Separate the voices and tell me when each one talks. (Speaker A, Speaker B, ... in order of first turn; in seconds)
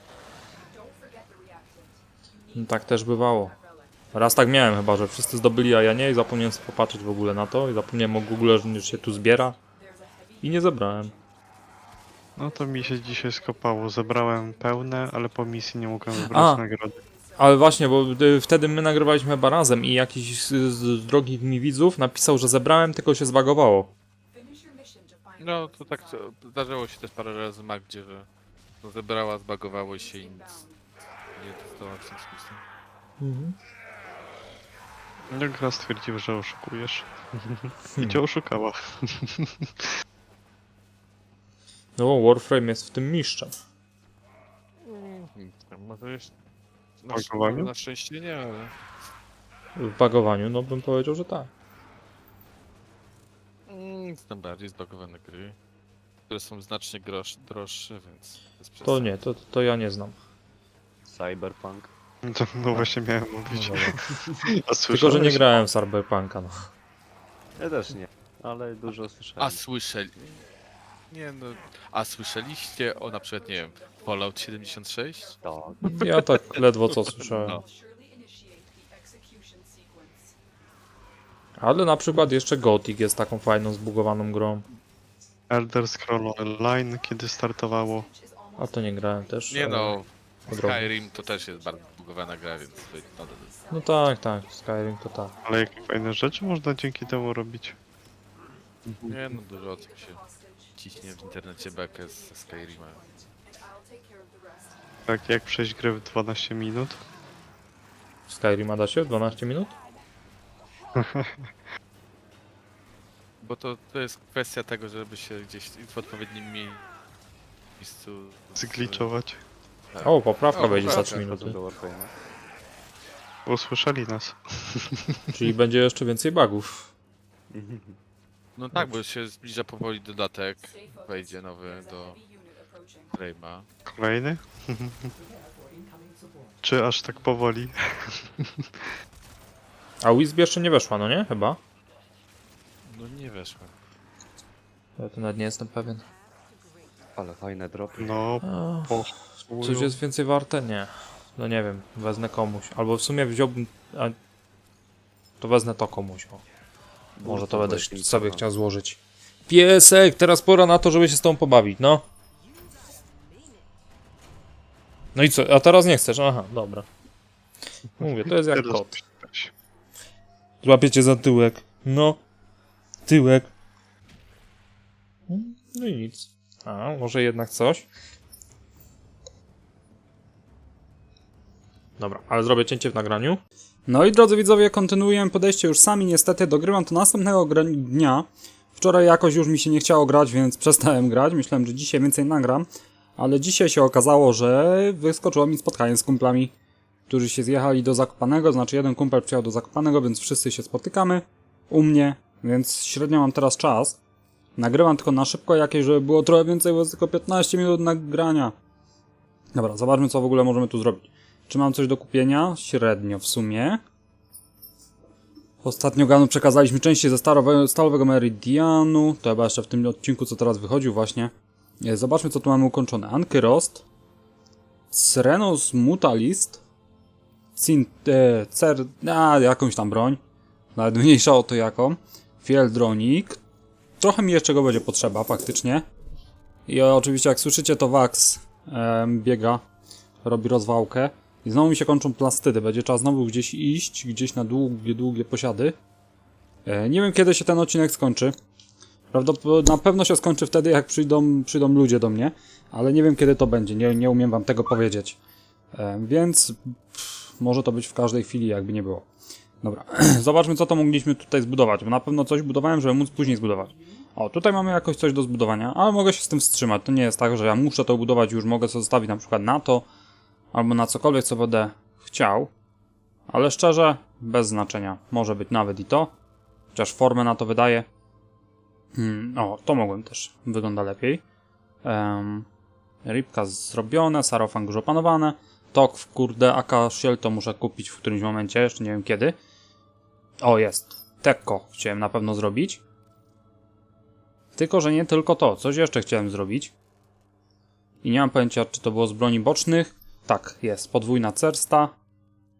Speaker A: 0.7-4.2, 8.3-11.3, 12.3-16.3, 16.9-19.0, 24.3-26.3, 29.9-30.8, 72.8-75.7, 77.0-80.3, 87.7-94.2, 95.2-97.1, 99.4-104.8, 130.6-133.2
Speaker B: 2.5-3.5, 4.1-9.5, 10.4-11.1, 16.2-16.6, 17.4-23.9, 33.2-33.6, 42.0-43.6, 49.8-51.5, 58.8-60.2, 63.5-64.1, 64.9-66.7, 75.8-77.6, 81.6-84.6, 88.6-90.9, 93.7-95.3, 108.3-109.7, 120.0-121.6, 125.3-126.9, 140.0-141.6, 145.0-146.0, 148.4-149.1, 149.6-154.2, 155.4-156.4, 157.2-162.0, 165.1-166.8, 168.0-169.0, 170.6-172.2, 173.1-173.5, 175.3-177.8, 182.0-183.4
Speaker C: 12.4-17.0, 35.3-39.9, 47.1-47.7, 62.2-65.5, 85.5-88.1, 95.5-97.8, 99.0-99.3, 105.1-107.0, 111.0-111.5, 118.5-119.4, 123.5-125.2, 133.9-135.1, 136.6-138.9, 148.0-150.0, 168.4-169.5
Speaker D: 25.4-28.3, 28.8-30.6, 31.4-32.6, 44.8-46.3, 47.0-48.7, 53.7-55.6, 56.3-59.1, 69.4-70.4, 71.1-75.4, 76.1-76.6, 89.5-93.5, 99.1-100.2, 100.8-103.0, 113.4-116.8, 117.8-119.1, 119.9-121.3, 128.6-132.2, 133.1-133.7, 142.8-143.7
Speaker E: 61.0-61.9, 67.6-69.6, 75.4-76.0, 120.6-122.1, 127.5-128.0, 147.1-148.3, 157.2-158.4
Speaker F: 183.9-196.5, 197.1-204.0, 204.6-208.5, 209.5-213.8, 215.6-223.8, 224.9-226.6, 227.6-230.2, 230.8-233.4, 234.0-235.8, 236.7-239.6, 240.2-245.8, 246.7-248.3, 249.1-255.2, 255.7-259.0, 259.6-269.9, 270.5-272.5, 273.3-276.1, 276.7-277.9, 278.9-281.2, 281.8-282.5, 283.0-289.4, 290.4-292.8, 294.6-296.7, 298.0-301.9